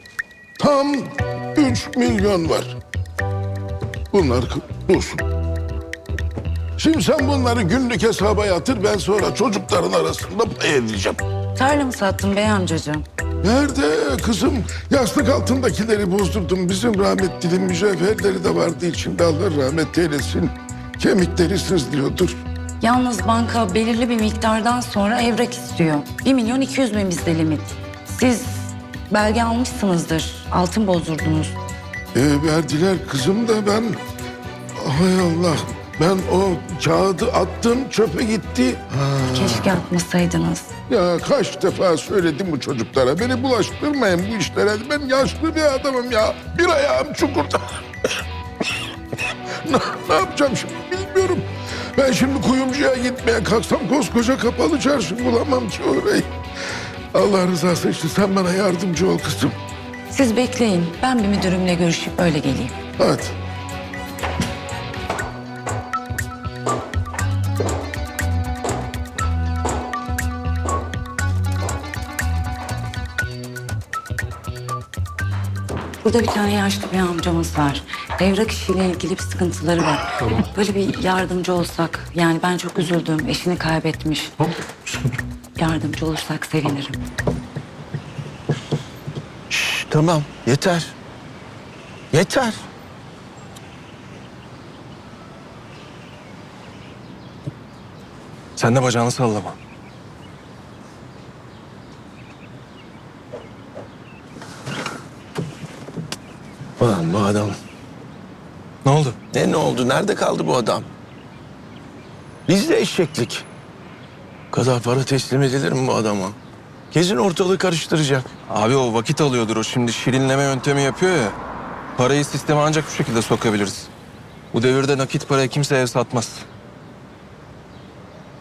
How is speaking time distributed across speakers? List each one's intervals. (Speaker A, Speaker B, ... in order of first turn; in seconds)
Speaker A: 0.6-2.8, 4.1-5.2, 6.8-11.2, 13.4-22.4, 32.1-34.0, 34.8-39.7, 40.9-47.6, 49.6-56.3, 57.1-59.5, 63.0-63.3
Speaker B: 11.6-13.0, 22.8-31.5, 39.4-40.7, 60.1-62.7, 76.0-84.3, 85.6-87.0
Speaker C: 89.5-90.9, 92.1-92.6, 106.8-107.6, 109.3-110.9, 112.5-113.5, 114.5-116.4, 116.9-118.3
Speaker D: 98.5-99.5, 108.8-109.2, 118.5-121.3, 122.0-123.9, 124.5-126.5